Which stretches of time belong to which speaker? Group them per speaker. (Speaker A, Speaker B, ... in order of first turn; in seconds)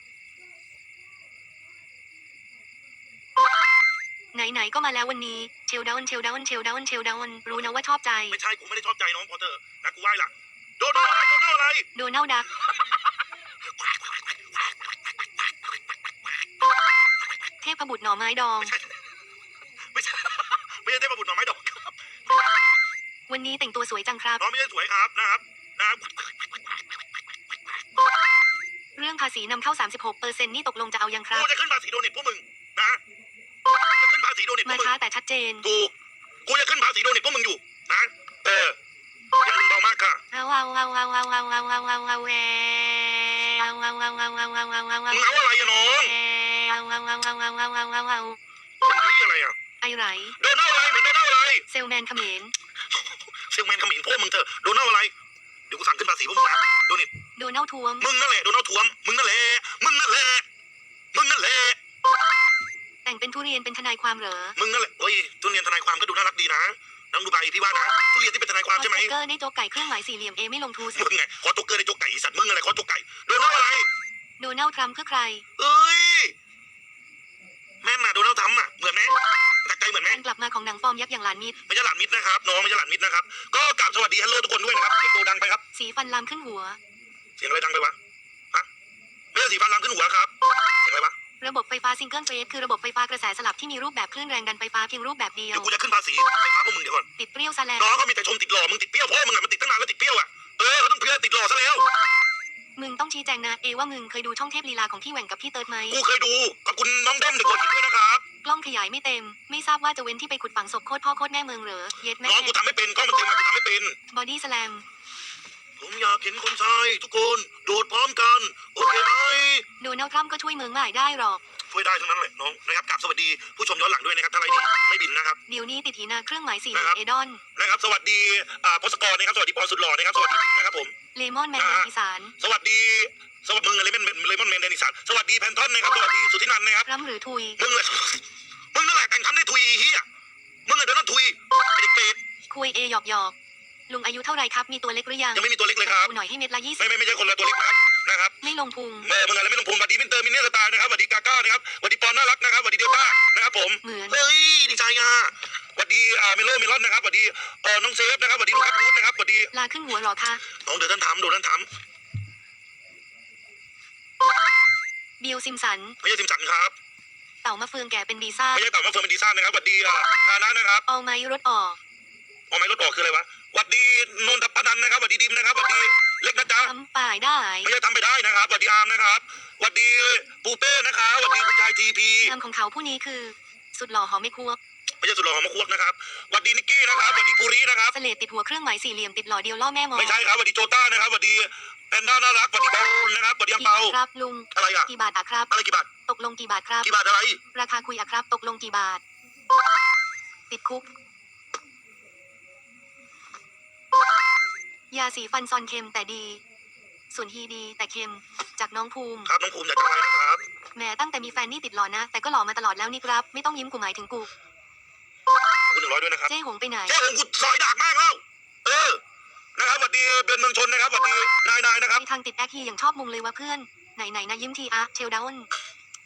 Speaker A: 4.3-8.4, 11.9-12.5, 17.6-18.7, 23.3-24.4, 29.0-31.5, 34.6-35.6, 40.3-48.4, 49.8-50.4, 51.7-52.5, 57.4-58.1, 63.0-64.6, 68.8-71.1, 74.4-75.4, 80.0-81.6, 85.7-86.8, 91.4-95.7, 97.2-98.0, 102.8-106.0, 108.4-112.5, 114.1-114.8, 119.8-121.4, 125.5-127.4, 131.1-132.3, 136.8-137.6, 142.5-143.3, 143.9-146.9, 148.4-149.1, 153.8-154.2, 159.5-160.4, 165.2-166.0, 167.4-168.7, 170.9-171.8, 176.6-177.7, 182.2-184.6, 187.9-190.2, 193.6-195.5, 196.1-196.9, 197.5-199.0, 200.5-200.9, 204.9-206.4, 207.1-209.3, 210.7-214.3, 216.3-217.0, 221.9-225.5
Speaker B: 8.3-11.9, 19.9-21.9, 24.4-26.3, 31.3-33.0, 33.8-35.0, 35.6-35.9, 36.5-38.8, 39.4-40.2, 45.1-46.1, 48.8-49.5, 50.4-51.6, 53.4-55.1, 55.7-57.1, 58.0-60.4, 61.1-61.8, 64.6-69.1, 70.9-73.9, 75.6-76.3, 77.8-80.2, 81.7-85.6, 87.4-88.0, 89.3-90.3, 90.8-91.1, 95.5-97.1, 97.8-101.9, 105.9-108.2, 112.2-114.0, 115.8-119.7, 121.7-125.4, 126.7-127.0, 127.5-130.9, 131.6-136.9, 137.6-138.2, 138.7-140.0, 140.7-142.2, 145.3-146.1, 146.8-148.4, 149.0-159.5, 160.6-161.7, 166.0-166.7, 168.5-170.8, 172.5-176.7, 177.6-182.3, 185.0-187.9, 189.9-194.0, 194.5-194.9, 195.5-195.9, 196.8-197.4, 209.2-210.4, 215.7-216.3, 216.9-219.0, 219.6-222.0